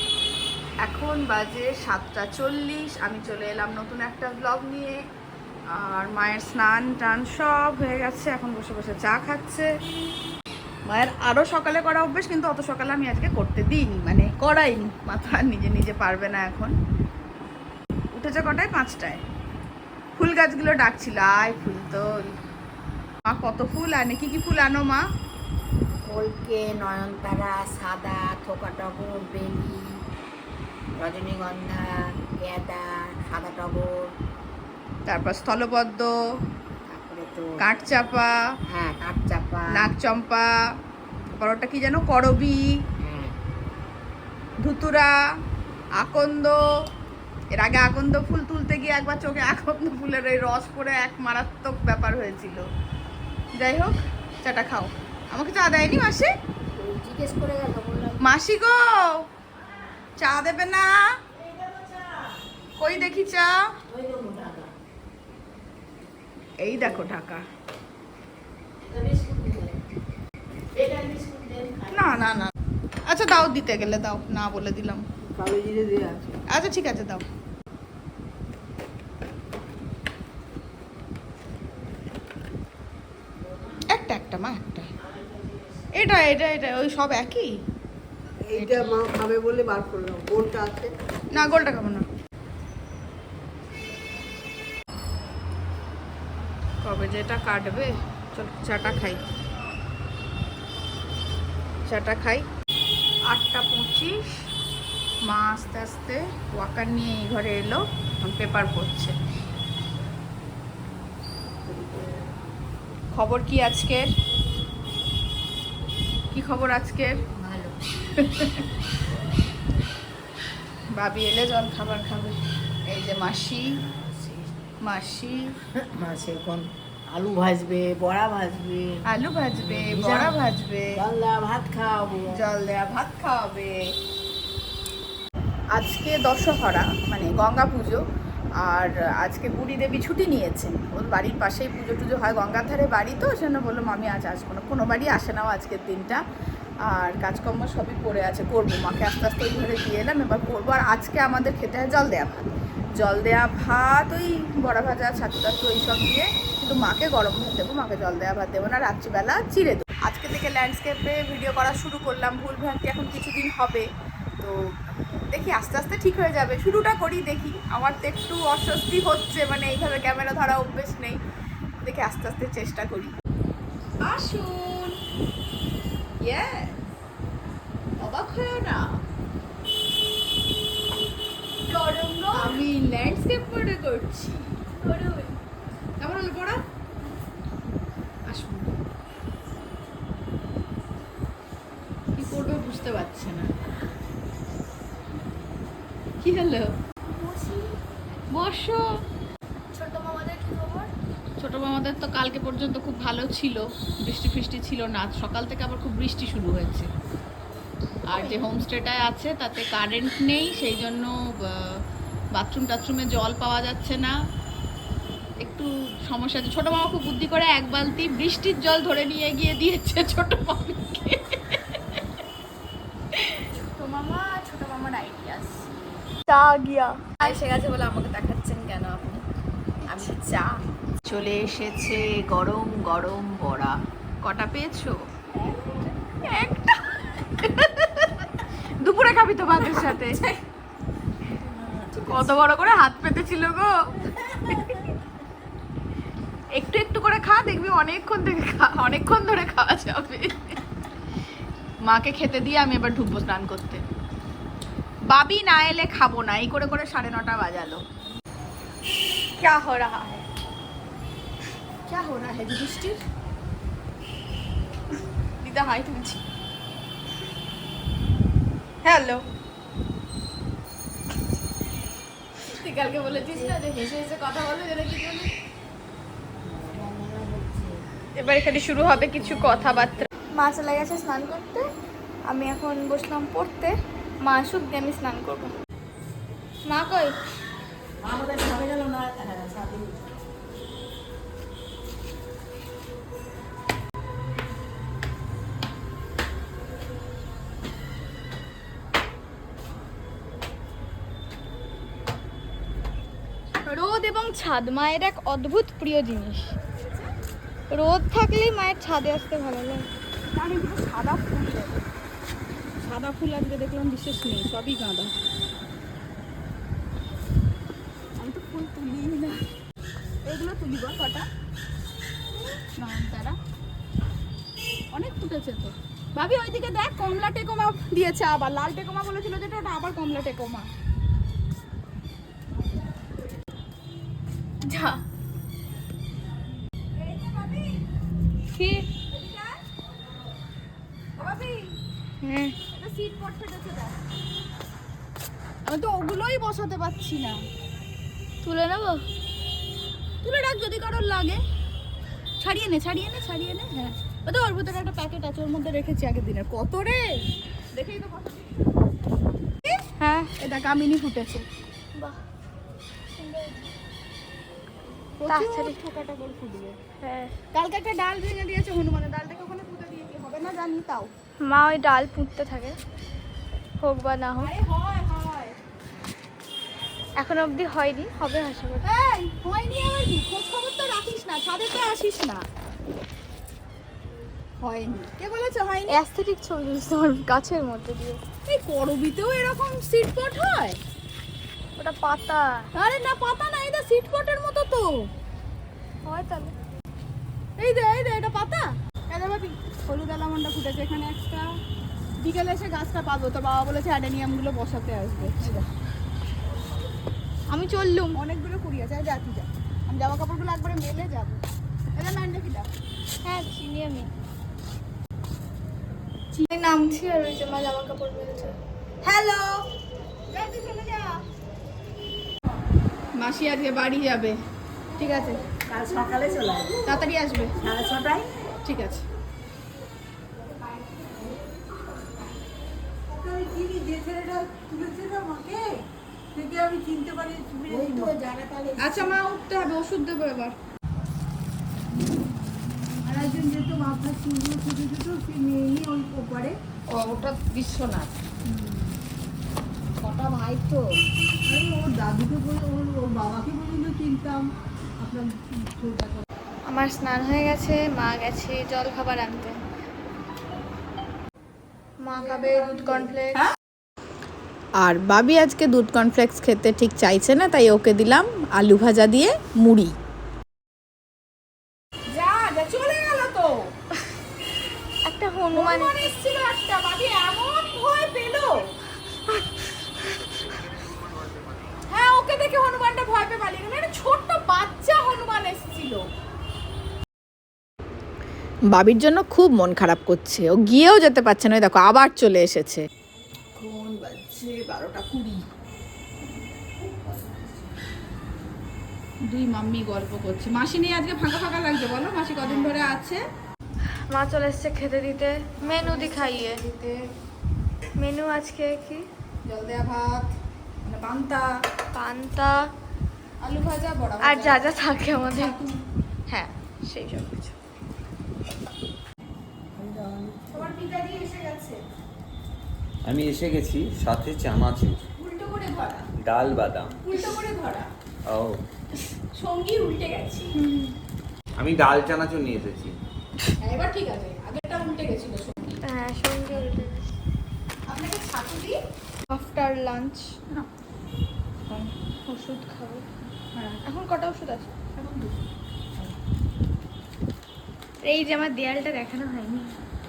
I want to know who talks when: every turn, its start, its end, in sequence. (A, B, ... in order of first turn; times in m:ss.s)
0:00.8-0:05.0 A
0:05.7-0:09.7 A
0:10.9-0:16.7 A
0:18.1-0:19.2 A
0:20.2-0:22.3 A
0:23.3-0:25.0 A
0:26.0-0:30.0 B
0:31.0-0:34.1 B
0:35.0-0:36.1 A
0:36.9-0:37.6 B
0:37.6-0:38.3 A
0:38.7-0:39.9 B
0:39.7-0:40.5 A
0:41.4-0:42.7 A
0:44.6-0:45.1 A
0:46.0-0:46.6 A
0:47.6-0:52.6 A
0:53.6-0:56.3 A
0:56.7-0:58.2 B
0:58.2-0:59.0 A
1:00.2-1:00.9 A
1:01.4-1:02.3 B
1:02.8-1:03.5 A
1:03.9-1:04.7 B
1:06.6-1:07.4 A
1:08.8-1:09.8 B
1:10.7-1:11.9 B
1:11.9-1:12.5 A
1:13.1-1:15.0 A
1:15.4-1:16.3 C
1:16.5-1:17.2 A
1:23.9-1:24.9 A
1:25.9-1:27.5 A
1:28.5-1:28.9 A
1:28.6-1:30.9 C
1:29.2-1:30.8 B
1:31.3-1:32.0 A
1:36.8-1:39.2 A
1:41.9-1:42.4 A
1:43.3-1:44.2 A
1:45.2-1:49.1 A
1:53.1-1:54.1 A
1:56.3-1:57.2 A
1:57.3-1:57.7 B
1:58.2-1:58.7 A
2:00.9-2:02.4 A
2:02.9-2:03.8 A
2:03.8-2:04.5 B
2:04.8-2:05.5 A
2:05.9-2:09.0 B
2:09.0-2:11.0 A
2:09.6-2:10.3 B
2:11.0-2:12.4 B
2:12.3-2:13.8 A
2:15.7-2:18.0 A
2:18.6-2:26.2 A
2:26.9-2:43.8 A
2:45.3-2:51.2 A
2:51.8-2:53.1 A
2:54.0-2:54.9 A
2:56.2-2:56.7 A
2:58.0-2:58.8 A
3:01.7-3:02.6 D
3:02.3-3:04.6 A
3:04.8-3:05.4 D
3:06.0-3:06.6 A
3:08.2-3:08.7 A
3:12.1-3:13.5 A
3:16.2-3:16.7 A
3:17.0-3:17.8 D
3:18.3-3:18.8 A
3:19.7-3:20.9 D
3:21.4-3:26.9 A
3:28.1-3:31.7 A
3:32.3-3:34.1 A
3:35.4-3:41.8 A
3:43.2-3:45.7 A
3:46.3-3:47.0 D
3:47.2-3:49.2 A
3:49.8-3:55.0 A
3:56.2-4:00.2 A
4:01.4-4:02.3 B
4:02.0-4:03.7 A
4:04.3-4:04.8 A
4:06.6-4:10.5 A
4:11.8-4:13.8 A
4:15.1-4:17.8 A
4:19.4-4:20.2 D
4:21.9-4:23.0 A
4:25.4-4:26.2 A
4:28.8-4:29.2 D
4:32.5-4:35.3 A
4:33.1-4:33.8 D
4:33.1-4:33.6 B
4:36.4-4:37.8 B
4:38.2-4:41.6 D
4:42.3-4:45.5 D
4:46.6-4:47.1 D
4:48.0-4:49.9 B
5:03.6-5:06.5 D
5:06.8-5:07.1 A
5:07.7-5:09.9 D
5:10.3-5:11.8 A
5:12.8-5:15.1 A
5:18.2-5:19.4 A
5:20.2-5:21.2 A
5:22.7-5:23.4 A
5:24.9-5:30.7 A
5:34.6-5:35.0 D
5:37.0-5:37.7 A
5:38.5-5:38.9 D
5:39.1-5:39.5 A
5:41.2-5:41.7 A
5:42.2-5:42.6 D
5:42.8-5:43.9 A
5:45.6-5:47.4 A
5:48.4-5:49.0 D
5:50.2-5:51.4 A
5:52.4-5:57.2 A
5:57.7-5:58.5 A
6:00.0-6:00.3 D
6:00.4-6:01.4 A
6:03.2-6:03.7 D
6:05.2-6:06.8 A
6:05.3-6:05.8 D
6:07.0-6:07.3 D
6:07.5-6:11.1 A
6:11.4-6:12.8 D
6:13.8-6:14.5 D
6:14.4-6:15.6 A
6:17.2-6:18.8 D
6:18.8-6:22.4 A
6:24.6-6:26.0 A
6:25.9-6:28.2 D
6:28.4-6:30.8 A
6:31.8-6:32.7 D
6:32.7-6:35.1 A
6:36.0-6:36.5 D
6:37.6-6:41.5 A
6:42.2-6:45.6 A
6:47.5-6:48.2 D
6:48.1-6:51.4 A
6:51.9-6:52.7 A
6:53.2-6:54.1 D
6:56.3-6:58.5 D
7:00.3-7:01.1 A
7:03.2-7:04.4 A
7:05.0-7:05.4 A
7:05.7-7:06.8 B
7:06.8-7:07.6 A
7:07.6-7:08.3 B
7:08.6-7:09.0 A
7:13.1-7:15.6 B
7:13.3-7:15.4 C
7:16.4-7:19.1 B
7:16.4-7:18.1 C
7:18.8-7:20.6 A
7:23.1-7:25.3 C
7:23.2-7:26.6 B
7:25.9-7:26.4 C
7:26.9-7:28.1 A
7:30.0-7:30.9 B
7:31.5-7:34.4 C
7:33.3-7:33.9 B
7:35.8-7:36.2 C
7:36.7-7:39.6 D
7:42.0-7:43.4 D
7:44.8-7:49.9 A
7:52.1-7:53.7 A
7:55.0-7:56.1 D
7:55.5-7:58.6 A
8:01.9-8:06.0 A
8:08.7-8:12.8 A
8:13.6-8:15.4 A
8:16.8-8:17.5 B
8:19.2-8:23.2 A
8:22.5-8:22.8 D
8:24.1-8:26.6 D
8:25.6-8:27.0 A
8:28.0-8:29.1 D
8:29.4-8:30.3 A
8:30.8-8:31.5 A
8:31.9-8:32.7 D
8:33.4-8:35.8 A
8:34.2-8:35.5 D
8:36.3-8:37.6 D
8:39.8-8:40.4 B
8:40.5-8:41.8 A
8:43.1-8:45.0 E
8:45.2-8:46.0 A
8:46.2-8:46.9 E
8:47.0-8:47.9 A
8:48.3-8:48.6 E
8:49.3-8:50.6 A
8:50.6-8:50.9 D
8:51.6-8:53.0 E
8:53.6-8:55.8 A
8:55.8-8:57.0 D
8:56.5-8:56.9 A
8:57.9-8:58.8 A
8:59.3-9:00.3 D
9:02.3-9:03.0 D
9:03.5-9:03.8 A
9:03.8-9:04.7 D
9:05.0-9:05.4 A
9:08.0-9:09.7 D